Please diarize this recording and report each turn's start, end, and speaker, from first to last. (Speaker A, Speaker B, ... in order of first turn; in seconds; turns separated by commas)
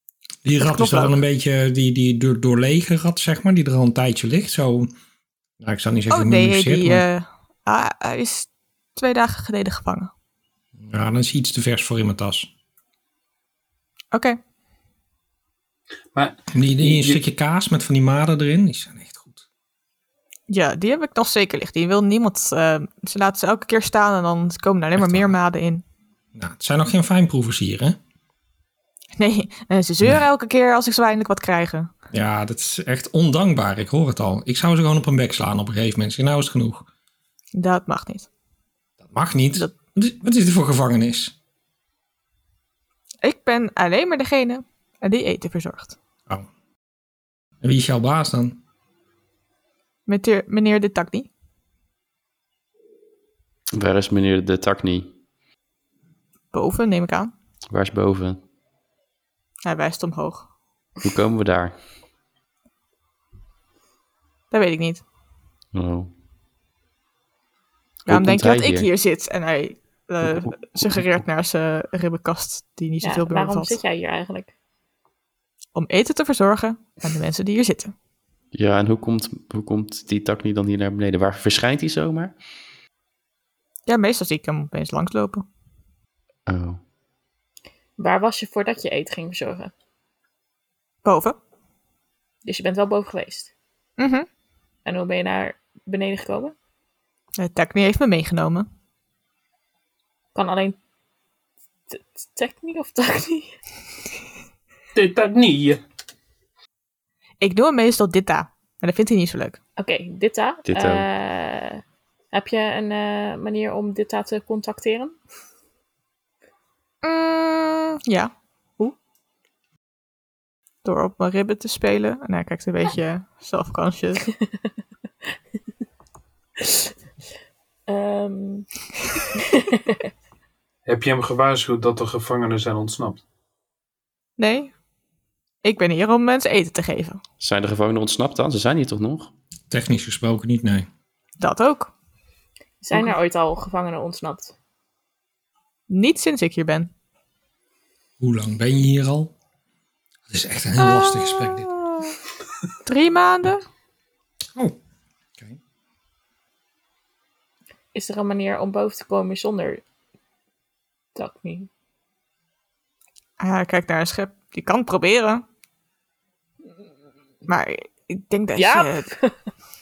Speaker A: 0.4-4.9, Speaker B: 0.6-1.2, Speaker A: 5.6-7.0, Speaker B: 6.1-10.1, Speaker A: 10.8-12.5, Speaker B: 14.1-14.4, Speaker C: 16.1-17.2, Speaker A: 16.5-19.4, Speaker B: 20.5-25.8, Speaker A: 24.9-25.3, Speaker A: 26.3-28.0, Speaker B: 29.2-31.9, Speaker A: 32.1-36.9, Speaker B: 37.5-38.3, Speaker A: 39.0-41.3, Speaker B: 43.2-46.0, Speaker A: 47.6-48.6, Speaker B: 50.0-51.3, Speaker D: 53.7-55.1, Speaker B: 56.5-57.3, Speaker D: 57.7-58.4, Speaker B: 59.6-60.5, Speaker D: 61.0-61.8, Speaker B: 64.5-65.0, Speaker D: 65.7-66.1, Speaker D: 68.1-68.9, Speaker B: 68.1-73.8, Speaker E: 73.0-74.5, Speaker B: 75.7-77.9, Speaker D: 78.5-82.3, Speaker B: 83.9-85.5, Speaker D: 86.5-86.8, Speaker E: 88.0-89.7, Speaker B: 91.0-91.4, Speaker E: 92.4-93.5, Speaker B: 94.0-94.3, Speaker E: 94.8-96.5, Speaker B: 97.4-98.7, Speaker E: 100.3-100.8, Speaker E: 101.9-103.6, Speaker C: 104.9-105.8, Speaker B: 107.4-109.6, Speaker E: 109.8-115.2, Speaker D: 110.7-111.1, Speaker B: 117.0-118.9, Speaker B: 120.8-124.2, Speaker E: 126.6-126.9, Speaker E: 127.9-128.7, Speaker E: 129.4-130.0, Speaker C: 130.8-133.2, Speaker B: 134.4-134.7, Speaker B: 135.6-137.2, Speaker D: 137.4-139.3, Speaker A: 139.7-140.9, Speaker B: 141.4-141.9, Speaker E: 142.8-144.5, Speaker B: 145.9-146.9, Speaker A: 148.2-149.3, Speaker A: 150.3-151.8, Speaker B: 150.8-152.2, Speaker B: 152.8-153.6, Speaker E: 157.9-159.8, Speaker E: 161.1-161.7, Speaker B: 163.4-165.4, Speaker B: 167.5-169.1, Speaker E: 168.6-169.3